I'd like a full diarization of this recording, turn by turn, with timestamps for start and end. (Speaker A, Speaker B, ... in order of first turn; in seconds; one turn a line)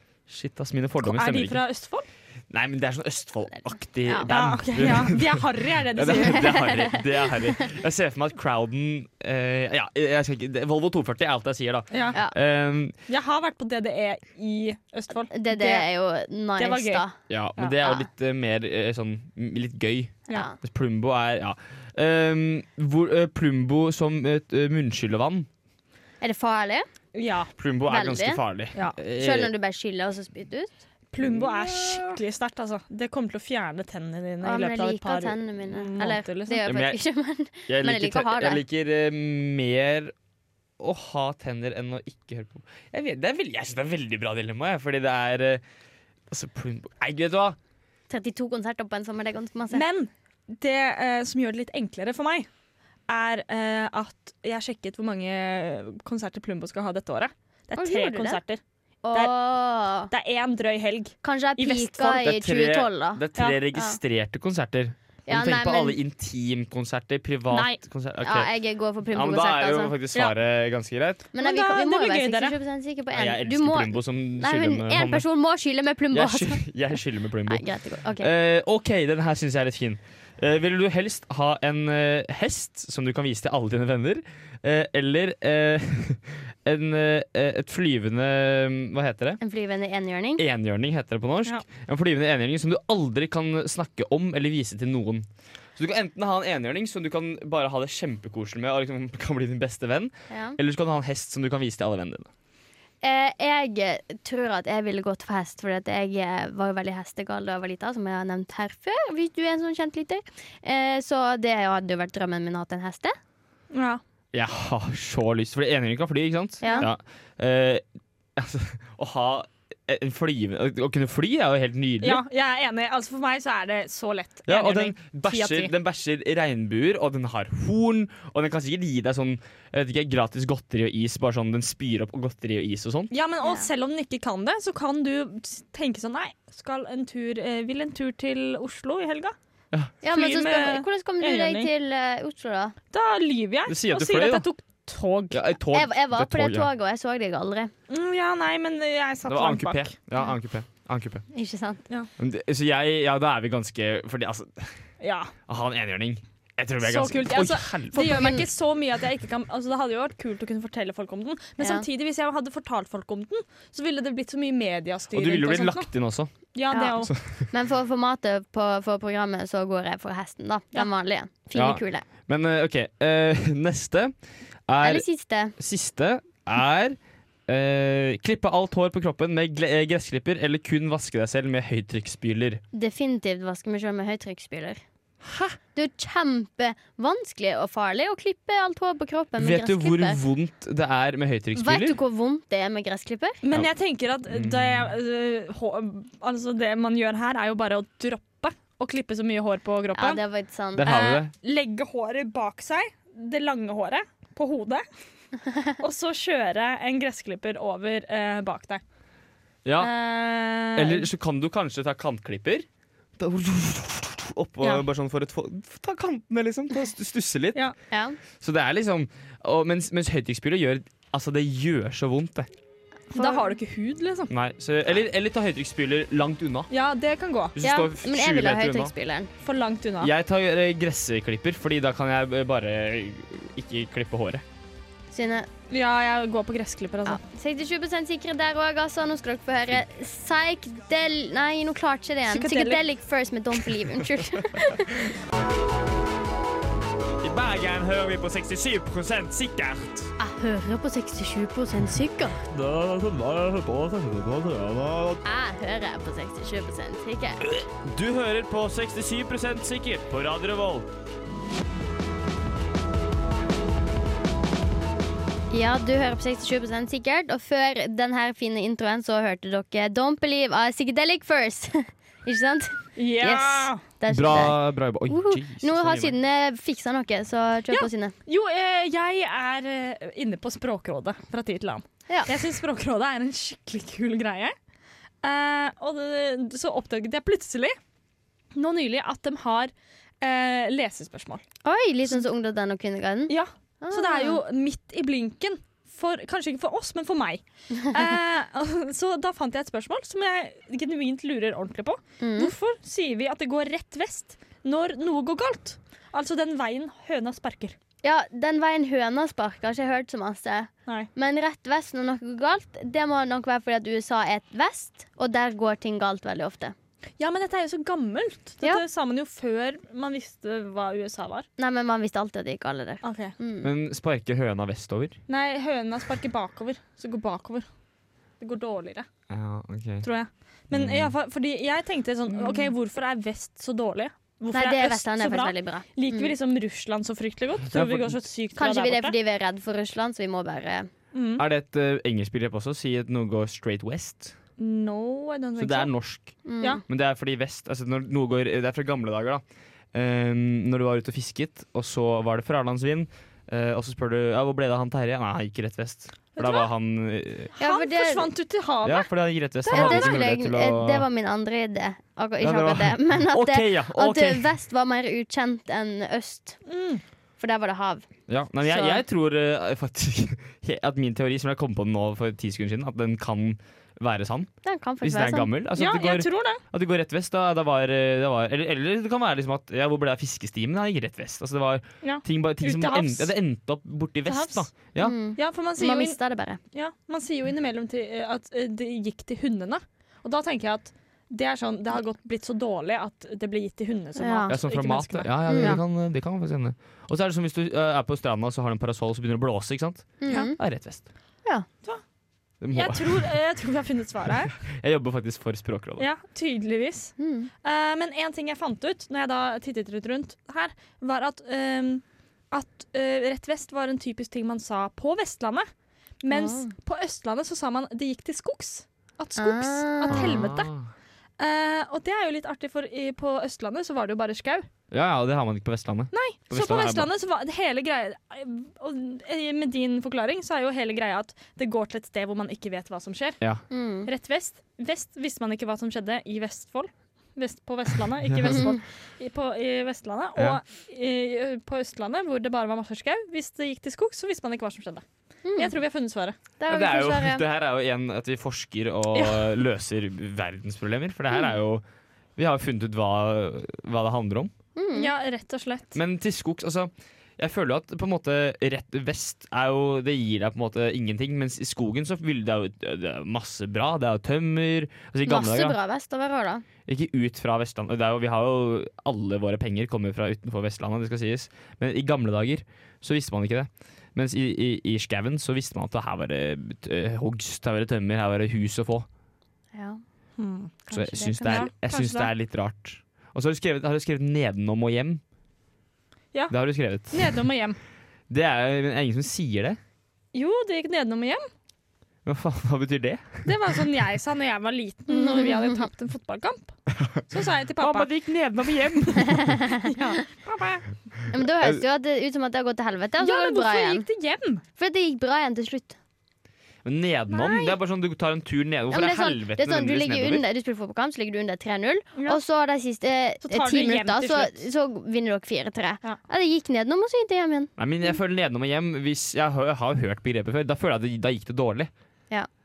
Speaker A: 0.3-1.6
Speaker B: 1.0-2.1
Speaker A: 2.5-12.9
Speaker B: 4.3-6.7
Speaker C: 6.2-7.0
Speaker B: 11.9-12.2
Speaker B: 13.1-15.9
Speaker C: 15.3-17.1
Speaker B: 16.6-17.0
Speaker A: 17.3-25.5
Speaker C: 20.3-20.6
Speaker C: 26.2-26.9
Speaker B: 27.1-27.5
Speaker A: 27.6-29.5
Speaker C: 27.9-28.4
Speaker C: 29.1-30.8
Speaker B: 31.1-36.6
Speaker A: 31.2-32.1
Speaker C: 34.4-38.6
Speaker A: 36.6-37.0
Speaker A: 37.7-40.1
Speaker A: 40.8-45.6
Speaker A: 46.3-47.6
Speaker C: 48.1-49.8
Speaker B: 49.7-52.5
Speaker B: 53.1-58.6
Speaker C: 57.8-58.4
Speaker C: 59.0-60.1
Speaker B: 60.1-62.1
Speaker C: 61.2-63.2
Speaker A: 62.0-68.5
Speaker C: 65.3-66.0
Speaker B: 67.5-67.8
Speaker C: 68.2-69.9
Speaker A: 69.1-71.2
Speaker C: 71.3-76.6
Speaker B: 71.4-72.6
Speaker A: 73.1-75.2
Speaker A: 76.1-89.4
Speaker C: 77.5-78.3
Speaker C: 89.4-90.4
Speaker A: 90.4-102.3
Speaker C: 100.3-100.6
Speaker C: 103.0-113.2
Speaker B: 113.7-114.0
Speaker A: 114.3-117.8
Speaker C: 116.6-116.9
Speaker A: 118.3-122.2
Speaker B: 122.0-125.7
Speaker A: 124.5-133.1
Speaker B: 133.1-139.3
Speaker C: 133.4-133.7
Speaker C: 140.0-142.8
Speaker B: 140.1-141.7
Speaker B: 142.9-145.4
Speaker A: 143.7-144.5
Speaker A: 145.3-146.7
Speaker C: 145.7-147.7
Speaker B: 147.9-149.9
Speaker A: 149.3-151.2
Speaker C: 151.3-151.8
Speaker A: 152.2-154.8
Speaker B: 155.0-155.3
Speaker A: 155.5-158.3
Speaker B: 156.8-165.9
Speaker C: 157.9-158.4
Speaker C: 161.6-161.8
Speaker A: 165.1-166.3
Speaker B: 166.5-167.1
Speaker C: 166.7-172.1
Speaker A: 167.0-167.4
Speaker A: 171.5-174.1
Speaker A: 174.7-182.6
Speaker C: 174.8-175.5
Speaker C: 182.7-184.8
Speaker A: 185.2-185.6
Speaker C: 185.7-190.2
Speaker A: 189.4-192.0
Speaker C: 191.5-193.4
Speaker B: 193.4-200.2
Speaker A: 194.3-194.9
Speaker C: 199.9-201.0
Speaker A: 200.8-201.3
Speaker B: 200.9-204.8
Speaker B: 205.8-208.8
Speaker A: 209.6-209.9
Speaker B: 209.8-211.1
Speaker A: 210.7-212.7
Speaker A: 213.2-217.6
Speaker C: 217.9-218.2
Speaker A: 218.4-222.5
Speaker B: 223.1-224.3
Speaker C: 223.1-223.4
Speaker A: 224.3-226.7
Speaker B: 226.7-227.5
Speaker A: 227.5-228.9
Speaker C: 227.6-229.3
Speaker B: 229.4-230.1
Speaker A: 230.0-234.4
Speaker C: 235.1-235.5
Speaker B: 235.7-237.2
Speaker C: 237.1-245.1
Speaker B: 242.3-242.8
Speaker A: 247.2-250.1
Speaker C: 250.2-252.4
Speaker A: 252.5-255.2
Speaker C: 255.2-257.4
Speaker A: 257.4-260.9
Speaker C: 265.5-278.1
Speaker B: 272.9-273.8
Speaker A: 274.1-276.1
Speaker B: 277.7-284.5
Speaker B: 285.2-287.8
Speaker B: 288.5-291.4
Speaker C: 291.6-294.4
Speaker B: 293.3-307.8
Speaker C: 302.2-302.5
Speaker C: 308.0-316.7
Speaker B: 317.2-321.4
Speaker C: 321.6-323.7
Speaker B: 323.0-323.3
Speaker A: 323.6-325.2
Speaker B: 325.3-327.7
Speaker B: 328.4-329.1
Speaker A: 329.3-330.1
Speaker B: 330.0-339.1
Speaker A: 330.7-331.1
Speaker A: 332.3-332.7
Speaker C: 334.5-336.3
Speaker A: 337.7-338.2
Speaker C: 338.6-340.9
Speaker B: 341.1-341.4
Speaker A: 341.4-344.4
Speaker B: 344.6-345.9
Speaker A: 345.6-357.5
Speaker C: 346.4-346.8
Speaker B: 356.4-356.7
Speaker B: 357.5-359.1
Speaker C: 357.6-358.2
Speaker A: 358.8-361.1
Speaker B: 359.6-360.2
Speaker C: 359.7-366.6
Speaker A: 362.4-364.5
Speaker B: 366.6-367.0
Speaker C: 367.4-368.1
Speaker A: 368.3-385.1
Speaker C: 368.7-369.0
Speaker C: 374.6-375.5
Speaker B: 375.8-376.6
Speaker B: 382.0-383.3
Speaker B: 384.2-386.2
Speaker C: 385.0-386.6
Speaker B: 386.7-395.8
Speaker C: 394.2-394.5
Speaker A: 394.5-401.1
Speaker C: 395.5-395.8
Speaker C: 400.2-400.6
Speaker A: 402.6-403.3
Speaker B: 402.7-404.6
Speaker A: 404.7-406.1
Speaker B: 406.0-415.7
Speaker C: 407.2-407.5
Speaker B: 416.2-420.7
Speaker C: 416.3-416.7
Speaker C: 419.4-420.4
Speaker A: 420.1-420.9
Speaker B: 421.4-424.7
Speaker A: 424.9-427.1
Speaker B: 426.1-433.4
Speaker C: 433.7-434.1
Speaker B: 434.1-445.0
Speaker A: 438.3-438.6
Speaker C: 445.4-445.7
Speaker B: 445.6-446.4
Speaker C: 446.6-447.4
Speaker A: 446.7-451.8
Speaker B: 449.1-449.4
Speaker A: 452.4-454.5
Speaker C: 454.8-455.1
Speaker B: 454.9-456.0
Speaker A: 455.9-465.8
Speaker C: 465.2-466.6
Speaker A: 466.9-479.1
Speaker C: 479.7-480.0
Speaker B: 480.4-480.7
Speaker C: 480.9-481.7
Speaker A: 480.9-485.2
Speaker B: 481.4-482.3
Speaker B: 486.3-487.8
Speaker A: 486.5-487.4
Speaker A: 488.3-489.8
Speaker B: 490.3-491.4
Speaker A: 492.2-493.4
Speaker B: 493.4-496.7
Speaker C: 495.1-495.9
Speaker B: 497.3-498.1
Speaker A: 497.8-499.6
Speaker C: 499.4-499.9
Speaker B: 499.9-500.9
Speaker C: 501.3-504.0
Speaker A: 501.4-501.8
Speaker B: 503.2-504.6
Speaker C: 504.8-506.0
Speaker A: 506.8-510.4
Speaker B: 507.3-507.8
Speaker C: 508.9-517.7
Speaker B: 512.1-512.4
Speaker B: 513.4-514.6
Speaker A: 517.8-521.9